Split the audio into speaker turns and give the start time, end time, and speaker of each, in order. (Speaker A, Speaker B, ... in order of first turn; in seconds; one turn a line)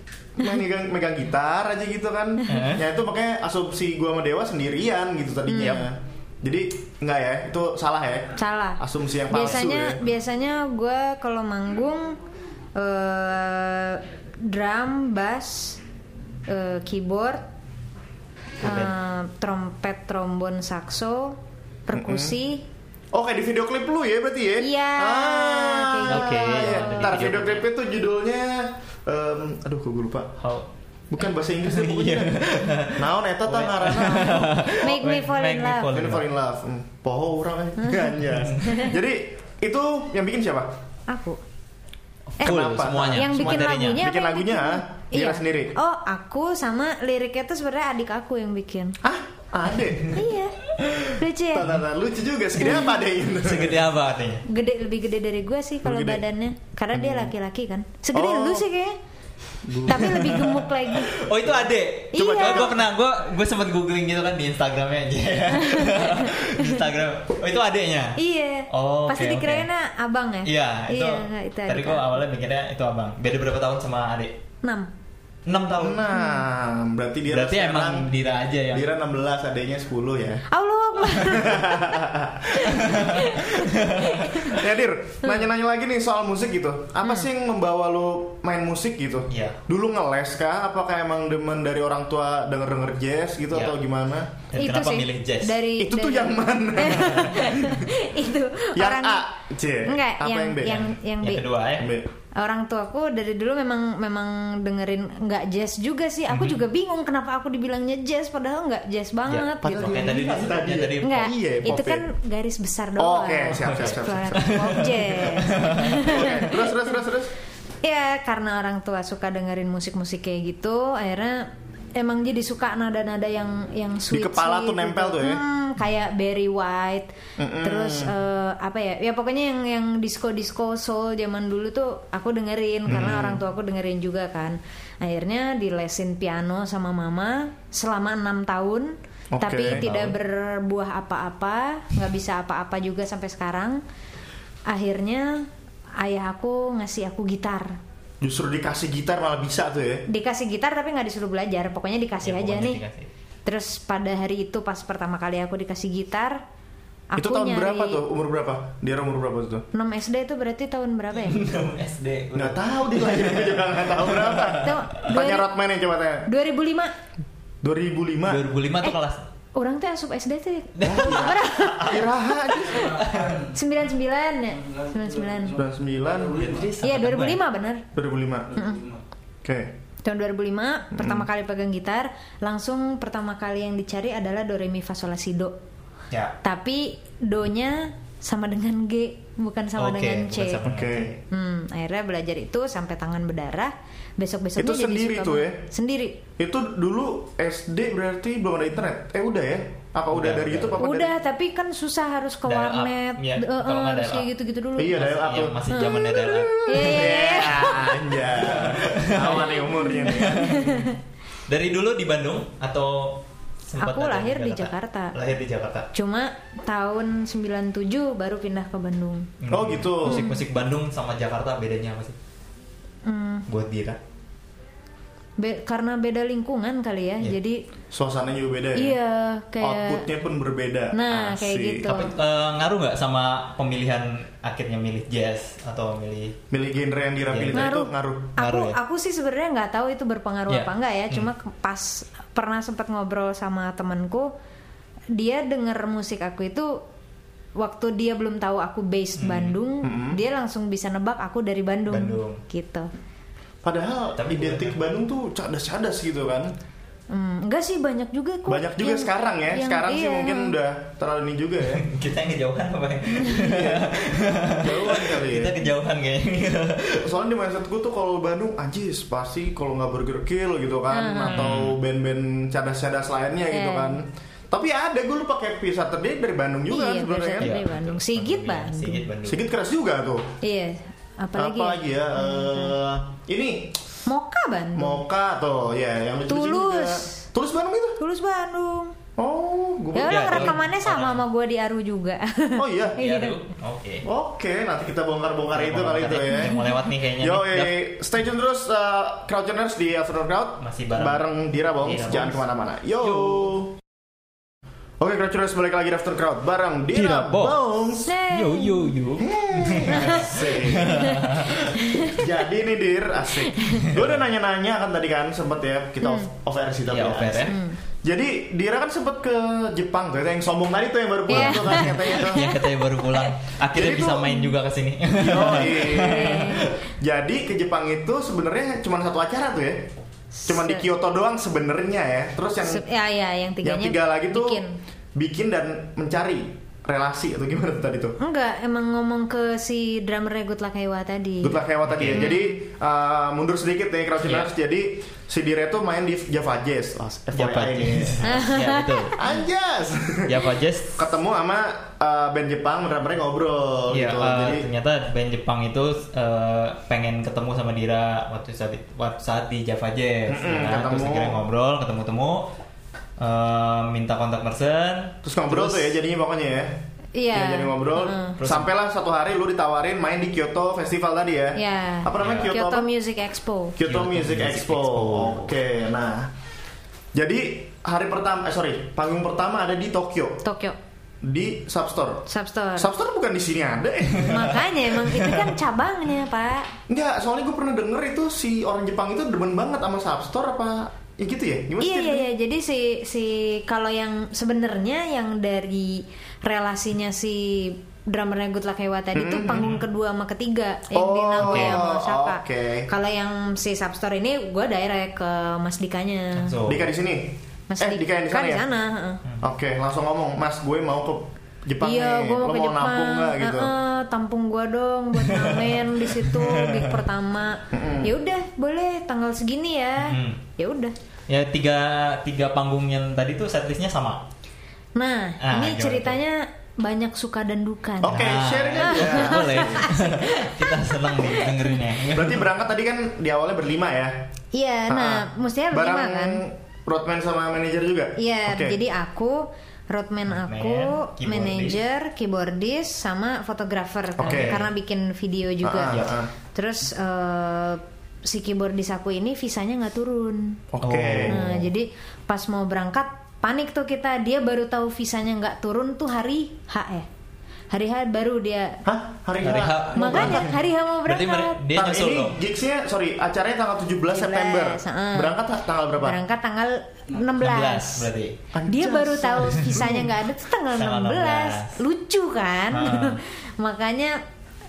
Speaker A: 0.4-10.0
Speaker B: 2.5-2.8
Speaker C: 5.5-5.8
Speaker C: 8.3-12.2
Speaker B: 9.3-9.6
Speaker C: 12.8-15.8
Speaker C: 16.5-17.4
Speaker C: 18.6-22.6
Speaker B: 18.6-18.9
Speaker A: 21.9-22.3
Speaker A: 23.1-30.4
Speaker C: 24.6-27.2
Speaker B: 26.1-27.6
Speaker B: 30.4-30.7
Speaker A: 31.1-34.6
Speaker B: 31.6-36.3
Speaker C: 33.9-35.9
Speaker A: 35.9-40.7
Speaker C: 41.1-41.4
Speaker B: 42.4-44.0
Speaker A: 42.4-45.7
Speaker C: 43.1-49.0
Speaker A: 49.0-50.2
Speaker C: 50.1-50.5
Speaker C: 51.1-51.8
Speaker A: 51.5-53.9
Speaker C: 52.6-52.9
Speaker B: 53.2-54.4
Speaker C: 54.5-59.0
Speaker A: 55.8-56.2
Speaker A: 56.9-57.3
Speaker A: 58.1-58.6
Speaker A: 59.6-60.5
Speaker C: 59.8-61.2
Speaker B: 60.0-69.7
Speaker C: 62.1-62.7
Speaker A: 62.1-62.9
Speaker C: 65.6-66.8
Speaker C: 68.2-72.2
Speaker B: 70.4-74.3
Speaker C: 74.6-74.9
Speaker B: 75.5-76.0
Speaker A: 75.7-78.1
Speaker C: 76.1-76.4
Speaker B: 77.3-78.9
Speaker A: 78.7-80.5
Speaker C: 80.5-84.6
Speaker A: 81.1-82.9
Speaker B: 82.8-84.5
Speaker A: 84.4-94.3
Speaker B: 89.3-89.6
Speaker B: 93.5-93.8
Speaker B: 94.5-95.6
Speaker C: 94.6-99.3
Speaker A: 95.8-97.9
Speaker A: 98.7-100.9
Speaker C: 99.8-101.5
Speaker B: 101.2-101.9
Speaker A: 101.8-102.1
Speaker C: 102.3-109.8
Speaker B: 106.3-106.6
Speaker B: 109.3-111.4
Speaker A: 109.6-112.0
Speaker C: 111.0-116.7
Speaker A: 113.0-114.7
Speaker B: 113.5-116.5
Speaker A: 116.0-117.3
Speaker C: 117.8-127.1
Speaker A: 124.1-125.4
Speaker A: 127.4-128.1
Speaker C: 127.6-143.8
Speaker A: 132.9-133.4
Speaker A: 139.3-139.9
Speaker B: 139.6-140.2
Speaker C: 144.7-147.8
Speaker A: 148.2-150.0
Speaker C: 150.1-152.8
Speaker B: 152.2-153.1
Speaker C: 153.4-156.4
Speaker C: 157.1-158.0
Speaker A: 157.2-159.6
Speaker C: 159.7-161.4
Speaker B: 161.1-165.0
Speaker A: 162.3-166.3
Speaker C: 164.6-165.5
Speaker C: 166.3-166.9
Speaker A: 167.6-168.4
Speaker B: 168.3-169.2
Speaker C: 169.5-175.6
Speaker B: 170.8-172.0
Speaker A: 170.8-172.9
Speaker B: 172.7-173.5
Speaker A: 175.5-176.5
Speaker B: 176.3-177.4
Speaker C: 176.8-177.8
Speaker A: 177.9-178.6
Speaker C: 178.5-178.8
Speaker A: 179.4-179.7
Speaker C: 180.0-185.5
Speaker A: 180.9-181.2
Speaker C: 186.4-190.6
Speaker B: 189.8-191.2
Speaker A: 190.6-191.1
Speaker C: 191.3-196.2
Speaker A: 194.6-195.6
Speaker A: 196.4-201.1
Speaker B: 200.1-200.8
Speaker C: 200.8-205.0
Speaker B: 202.4-204.3
Speaker A: 204.8-210.7
Speaker B: 204.9-210.9
Speaker C: 205.7-208.0
Speaker C: 209.8-211.0
Speaker B: 211.5-215.9
Speaker C: 213.8-215.1
Speaker C: 215.9-219.3
Speaker B: 219.4-222.2
Speaker A: 219.5-220.3
Speaker C: 220.0-220.4
Speaker C: 223.0-223.4
Speaker B: 223.5-224.0
Speaker C: 225.4-227.6
Speaker A: 227.9-229.0
Speaker C: 228.7-230.0
Speaker A: 229.6-232.0
Speaker C: 230.9-232.1
Speaker B: 231.9-236.3
Speaker A: 236.5-238.3
Speaker B: 237.3-237.7
Speaker C: 237.5-244.3
Speaker B: 238.4-238.8
Speaker B: 240.5-241.3
Speaker C: 245.1-246.8
Speaker C: 247.6-252.9
Speaker B: 249.2-249.6
Speaker A: 249.8-250.2
Speaker B: 251.9-252.4
Speaker A: 253.6-256.5
Speaker B: 254.2-254.8
Speaker C: 257.1-260.5
Speaker A: 258.5-261.8
Speaker B: 261.6-267.1
Speaker A: 263.3-265.6
Speaker A: 267.0-277.6
Speaker C: 270.9-271.5
Speaker B: 271.3-271.8
Speaker C: 273.5-274.0
Speaker C: 276.7-279.0
Speaker B: 277.4-279.4
Speaker A: 279.2-280.3
Speaker C: 280.4-282.8
Speaker A: 281.4-283.8
Speaker C: 284.1-284.9
Speaker A: 284.8-288.0
Speaker C: 286.3-287.2
Speaker C: 288.0-288.9
Speaker A: 289.2-290.6
Speaker C: 289.9-293.4
Speaker B: 290.0-291.2
Speaker A: 292.5-293.0
Speaker B: 293.0-294.1
Speaker A: 294.0-296.6
Speaker B: 295.5-297.8
Speaker C: 296.3-296.7
Speaker A: 297.2-303.8
Speaker B: 300.6-301.2
Speaker B: 301.8-302.4
Speaker B: 303.0-303.5
Speaker A: 305.0-308.1
Speaker B: 306.9-311.8
Speaker C: 308.0-308.9
Speaker A: 309.2-311.1
Speaker C: 309.8-312.3
Speaker A: 312.0-322.5
Speaker C: 313.4-313.9
Speaker B: 313.8-314.1
Speaker C: 316.0-316.3
Speaker B: 316.9-317.6
Speaker C: 317.5-317.8
Speaker C: 321.3-323.4
Speaker B: 321.3-326.7
Speaker A: 323.7-324.4
Speaker A: 325.1-329.9
Speaker C: 325.7-326.7
Speaker C: 330.4-330.9
Speaker A: 330.5-332.8
Speaker C: 332.6-334.8
Speaker A: 333.6-334.6
Speaker A: 335.1-338.1
Speaker C: 338.2-341.6
Speaker A: 341.4-350.4
Speaker B: 341.8-342.3
Speaker C: 342.1-342.5
Speaker B: 347.3-349.2
Speaker C: 348.2-349.2
Speaker B: 350.2-351.0
Speaker A: 350.9-354.7
Speaker B: 353.9-362.5
Speaker A: 360.3-361.4
Speaker B: 363.2-365.9
Speaker A: 365.2-366.8
Speaker C: 367.1-368.4
Speaker A: 367.3-372.9
Speaker B: 368.4-368.7
Speaker C: 371.5-373.8
Speaker B: 372.2-372.5
Speaker A: 373.8-376.3
Speaker B: 373.8-375.5
Speaker A: 377.1-380.4
Speaker C: 380.4-380.8
Speaker A: 381.2-384.6
Speaker C: 382.3-382.9
Speaker C: 384.3-386.7
Speaker A: 386.9-392.3
Speaker C: 391.8-406.5
Speaker A: 399.1-399.8
Speaker A: 400.9-402.9
Speaker B: 401.4-401.8
Speaker B: 406.3-406.9
Speaker A: 406.6-408.6
Speaker C: 407.7-409.2
Speaker A: 409.4-413.7
Speaker C: 411.8-420.9
Speaker B: 415.2-417.0
Speaker A: 417.7-418.1
Speaker B: 420.0-420.4
Speaker B: 421.3-424.2
Speaker C: 424.9-431.7
Speaker B: 425.4-426.2
Speaker A: 428.0-429.9
Speaker B: 428.1-432.5
Speaker A: 432.1-434.3
Speaker C: 434.5-436.4
Speaker A: 434.9-438.8
Speaker C: 438.1-450.6
Speaker B: 440.3-441.8
Speaker A: 444.2-444.6
Speaker B: 444.2-444.7
Speaker A: 445.6-446.3
Speaker A: 450.7-451.4
Speaker B: 450.8-451.7
Speaker C: 451.3-457.1
Speaker C: 457.7-458.8
Speaker A: 458.8-460.5
Speaker B: 459.4-462.4
Speaker C: 459.9-461.6
Speaker A: 461.7-466.2
Speaker C: 464.1-465.3
Speaker C: 466.0-468.1
Speaker B: 467.4-468.4
Speaker A: 468.5-470.1
Speaker C: 468.6-474.2
Speaker B: 469.4-470.0
Speaker B: 470.7-471.8
Speaker B: 472.7-473.2